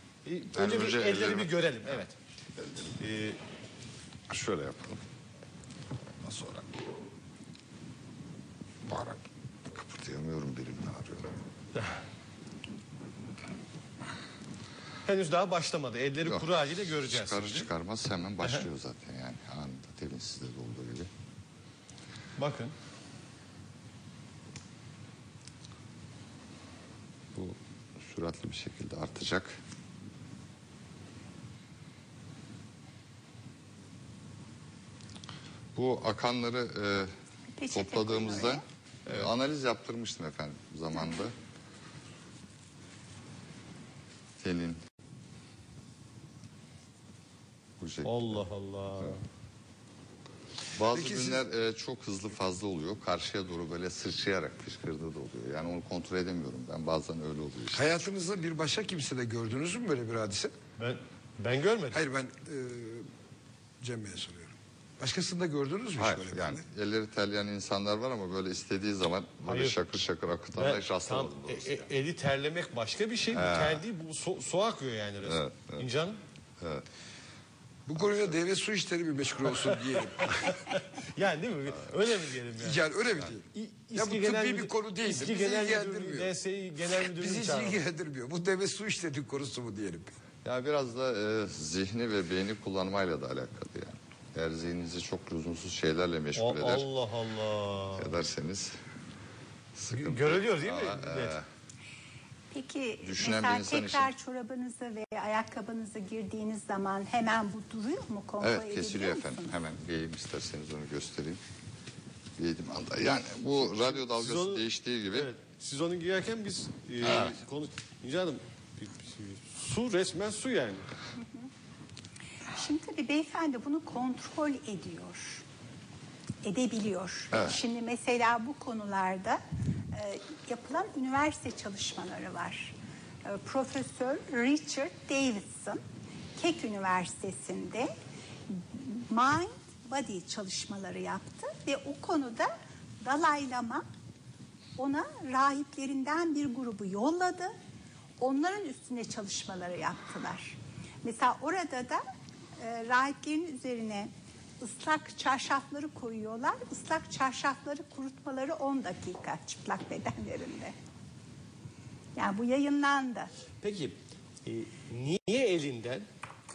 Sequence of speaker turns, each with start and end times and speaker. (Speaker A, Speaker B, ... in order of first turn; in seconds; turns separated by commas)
Speaker A: 0.2-2.2, Speaker B: 0.5-1.9, Speaker A: 3.0-3.4, Speaker B: 4.3-5.0, Speaker B: 6.2-6.7, Speaker B: 8.9-11.3, Speaker A: 15.1-17.7, Speaker B: 17.1-21.1, Speaker A: 22.4-22.7, Speaker B: 27.3-29.5, Speaker B: 35.7-37.1, Speaker C: 37.5-38.6, Speaker B: 37.7-41.3, Speaker B: 44.4-44.8, Speaker B: 47.8-48.2, Speaker A: 48.0-49.2, Speaker B: 50.7-57.9, Speaker D: 50.9-51.4, Speaker D: 57.7-60.5, Speaker A: 60.8-62.0, Speaker D: 61.9-63.1, Speaker D: 63.8-66.6, Speaker B: 66.0-71.8, Speaker A: 69.4-69.8, Speaker A: 70.5-76.2, Speaker B: 73.3-73.8, Speaker B: 75.2-75.8, Speaker D: 77.8-80.6, Speaker B: 78.0-78.3, Speaker A: 79.7-82.9, Speaker D: 82.6-86.3, Speaker A: 83.5-87.8, Speaker D: 87.0-90.1, Speaker B: 90.4-96.8, Speaker A: 96.3-98.1, Speaker B: 98.0-98.7, Speaker B: 99.8-101.4, Speaker A: 99.9-101.4, Speaker C: 102.5-109.5, Speaker B: 103.0-104.1, Speaker B: 108.4-111.4, Speaker B: 112.4-115.3, Speaker A: 114.0-120.9, Speaker B: 117.0-117.4, Speaker C: 121.2-121.5, Speaker C: 122.5-125.4, Speaker C: 126.4-129.4, Speaker B: 127.3-127.6, Speaker C: 129.9-132.7, Speaker C: 133.2-135.8, Speaker C: 136.4-137.9, Speaker C: 138.5-142.5, Speaker C: 143.0-143.8, Speaker C: 144.8-147.5, Speaker C: 148.2-152.0, Speaker C: 152.6-154.1, Speaker C: 154.6-160.7, Speaker C: 162.2-163.3, Speaker A: 163.6-166.1